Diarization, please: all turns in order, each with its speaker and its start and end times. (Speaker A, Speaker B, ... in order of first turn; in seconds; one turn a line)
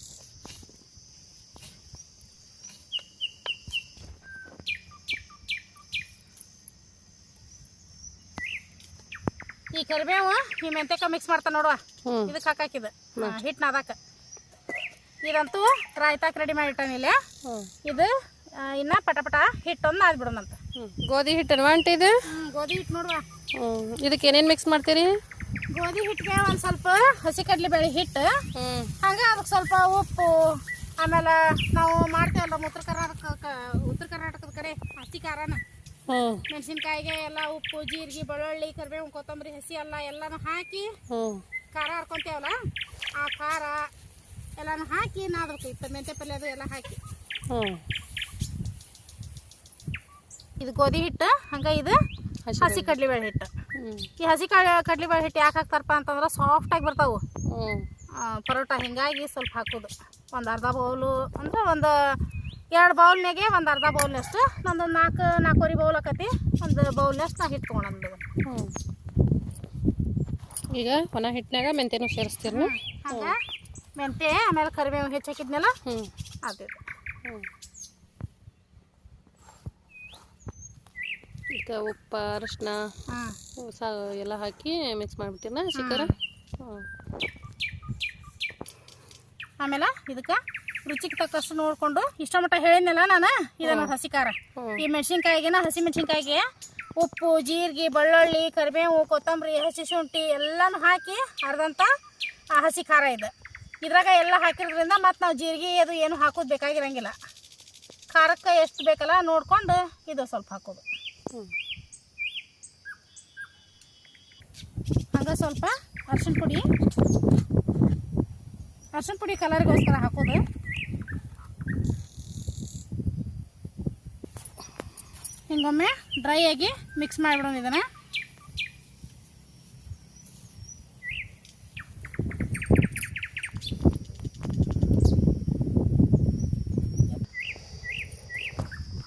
Speaker A: 9.7-14.0
Speaker B: 12.1-12.3
Speaker A: 15.2-17.2
Speaker B: 17.4-17.7
Speaker A: 17.9-20.6
Speaker B: 20.8-22.2
Speaker A: 22.3-23.2
Speaker B: 23.6-25.2
Speaker A: 25.7-28.3
Speaker B: 28.6-28.9
Speaker A: 29.0-35.6
Speaker B: 36.1-36.5
Speaker A: 36.5-40.9
Speaker B: 41.1-41.4
Speaker A: 41.7-42.6
Speaker A: 43.2-43.9
Speaker A: 44.6-47.0
Speaker B: 47.5-47.8
Speaker A: 50.6-52.0
Speaker B: 52.5-53.0
Speaker A: 52.6-53.5
Speaker B: 53.8-54.1
Speaker A: 54.2-57.2
Speaker B: 57.5-57.9
Speaker A: 58.2-62.2
Speaker A: 62.7-68.2
Speaker B: 68.5-68.7
Speaker B: 70.7-73.3
Speaker A: 72.5-73.4
Speaker A: 74.0-75.8
Speaker B: 75.9-76.1
Speaker A: 76.4-76.8
Speaker B: 81.5-82.8
Speaker A: 83.1-83.4
Speaker B: 83.6-86.8
Speaker A: 85.8-86.2
Speaker A: 89.6-96.5
Speaker B: 93.6-93.9
Speaker B: 94.6-94.8
Speaker A: 97.0-101.9
Speaker A: 102.5-103.3
Speaker A: 103.8-107.2
Speaker A: 108.1-110.8
Speaker A: 115.1-116.6
Speaker A: 118.9-120.4
Speaker A: 125.5-127.9